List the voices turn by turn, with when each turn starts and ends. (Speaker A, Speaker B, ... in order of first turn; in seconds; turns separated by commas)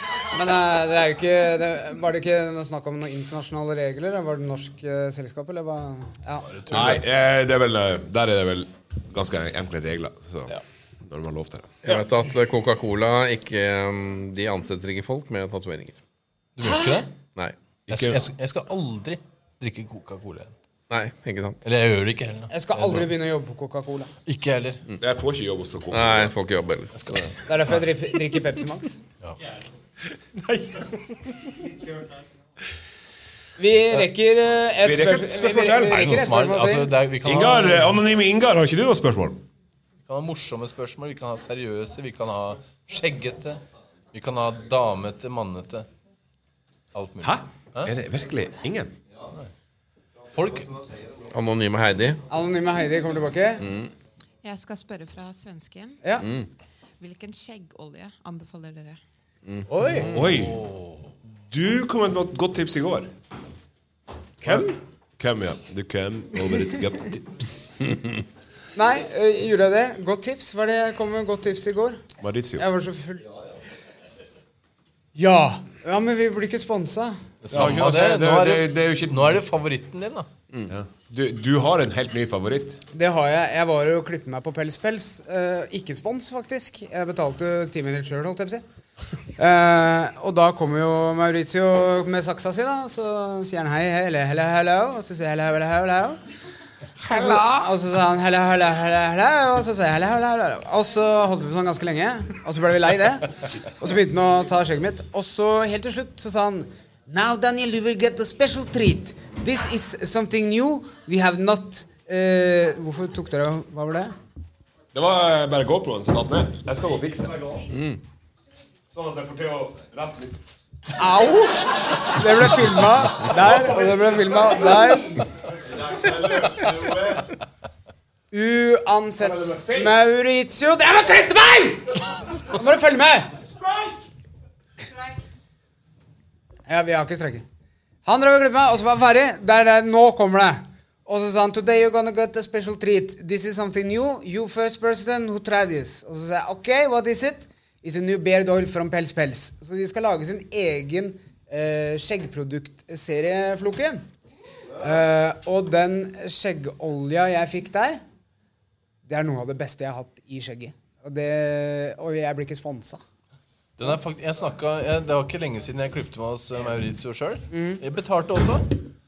Speaker A: 0.3-6.9, Speaker B: 6.5-7.0, Speaker C: 6.7-11.8, Speaker D: 11.8-16.0, Speaker B: 16.6-17.1, Speaker A: 16.6-17.0, Speaker C: 17.9-18.3, Speaker B: 17.9-20.5, Speaker D: 20.9-21.6, Speaker B: 21.6-23.1, Speaker A: 22.5-24.1, Speaker B: 24.2-24.8, Speaker C: 25.0-26.3, Speaker D: 25.9-27.3, Speaker B: 27.0-27.3, Speaker A: 27.4-29.0, Speaker C: 30.3-31.0, Speaker A: 33.6-36.9, Speaker C: 34.8-36.0, Speaker B: 35.9-38.0, Speaker C: 37.2-39.4, Speaker B: 40.1-43.6, Speaker B: 44.1-45.9, Speaker B: 46.9-47.9, Speaker C: 47.2-48.9, Speaker B: 50.3-50.8, Speaker D: 51.3-52.2, Speaker A: 52.3-53.6, Speaker D: 53.6-53.9, Speaker E: 54.4-56.0, Speaker E: 57.0-59.0, Speaker D: 59.5-60.3, Speaker A: 59.7-60.2, Speaker C: 60.0-60.6, Speaker B: 60.3-61.0, Speaker C: 61.5-63.1, Speaker A: 64.4-64.7, Speaker C: 64.4-67.7, Speaker A: 68.7-72.0, Speaker C: 72.2-72.6, Speaker A: 72.6-73.2, Speaker A: 75.1-77.2, Speaker B: 77.4-80.3, Speaker C: 77.5-79.4, Speaker C: 80.7-82.8, Speaker A: 82.9-88.6, Speaker A: 89.4-96.2, Speaker A: 97.1-114.1, Speaker C: 97.1-97.4, Speaker C: 114.9-117.7, Speaker D: 117.7-118.0, Speaker C: 118.9-120.4, Speaker A: 121.0-125.2, Speaker C: 126.0-126.5, Speaker A: 128.3-133.3, Speaker C: 129.2-130.0, Speaker A: 136.7-137.4, Speaker A: 138.0-154.0, Speaker A: 154.8-158.0, Speaker A: 159.1-163.0, Speaker B: 163.8-168.8, Speaker A: 167.5-167.8